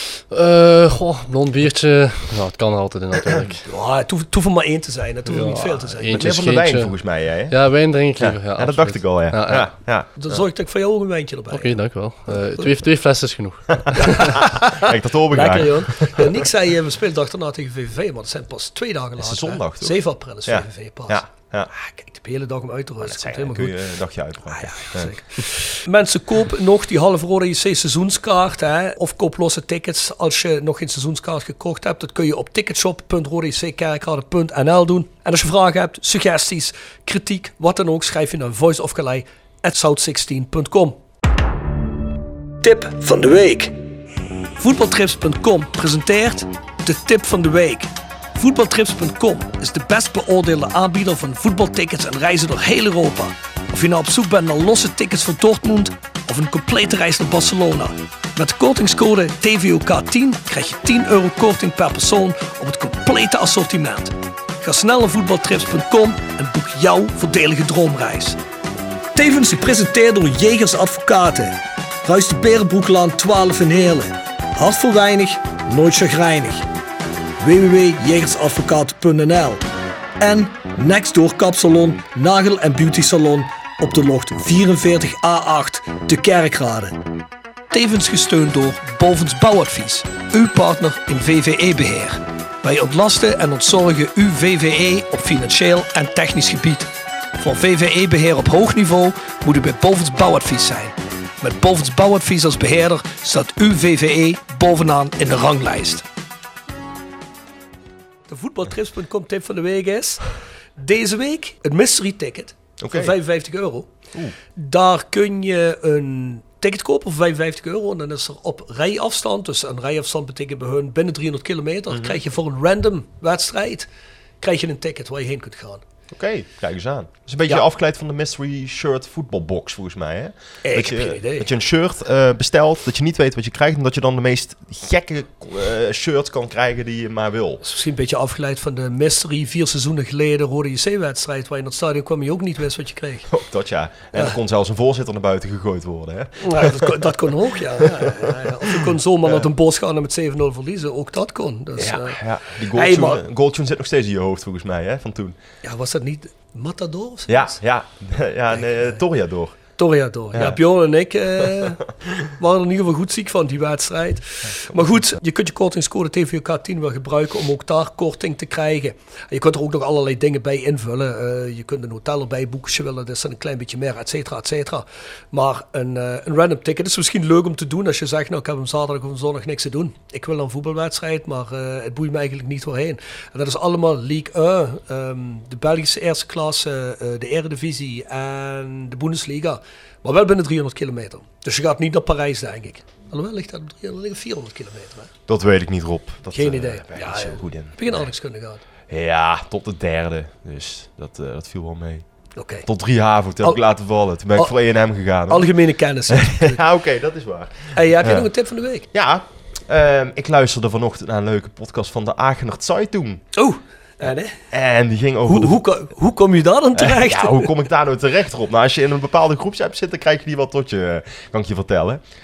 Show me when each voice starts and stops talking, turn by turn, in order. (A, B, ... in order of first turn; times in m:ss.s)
0:00.2-0:03.6 A
0:03.6-0:06.3 B
0:05.3-0:06.9 A
0:06.1-0:07.6 C
0:07.5-0:09.7 A
0:08.2-0:10.4 C
0:10.2-0:11.7 B
0:11.5-0:14.4 A
0:13.8-0:16.4 C
0:13.9-0:23.8 B
0:19.2-0:21.7 C
0:23.0-0:25.1 C
0:24.5-0:41.0 B
0:42.6-0:43.8 B
0:44.6-1:08.4 B
1:09.1-1:16.7 B
1:17.4-1:19.6 B
1:20.2-1:27.0 B
1:27.7-1:46.0 B
1:48.3-1:50.3 B
1:50.8-1:53.9 B
1:52.8-1:53.1 C
1:54.6-2:03.9 B
2:01.9-2:02.2 C
2:04.4-2:05.8 B
2:06.1-2:17.6 C
2:10.6-2:11.5 B
2:17.6-2:23.3 B
2:23.3-2:27.0 C
2:26.4-2:32.2 B
2:27.8-2:29.4 C
2:31.8-2:35.4 C
2:32.7-2:33.2 B
2:35.6-2:37.6 B
2:37.3-2:39.6 C
2:39.8-2:41.8 B
2:40.3-2:40.6 C
2:42.4-3:15.1 B
2:44.7-2:45.0 C
3:15.3-3:18.0 C
3:16.3-3:18.6 B
3:18.9-3:22.0 C
3:22.4-3:22.7 B
3:22.6-3:25.5 C
3:25.3-3:26.6 B
3:26.1-3:28.3 C
3:27.7-3:28.9 B
3:28.9-3:33.2 C
3:33.3-3:34.4 B
3:34.5-3:35.6 C
3:35.2-3:37.5 B
3:36.7-3:42.0 C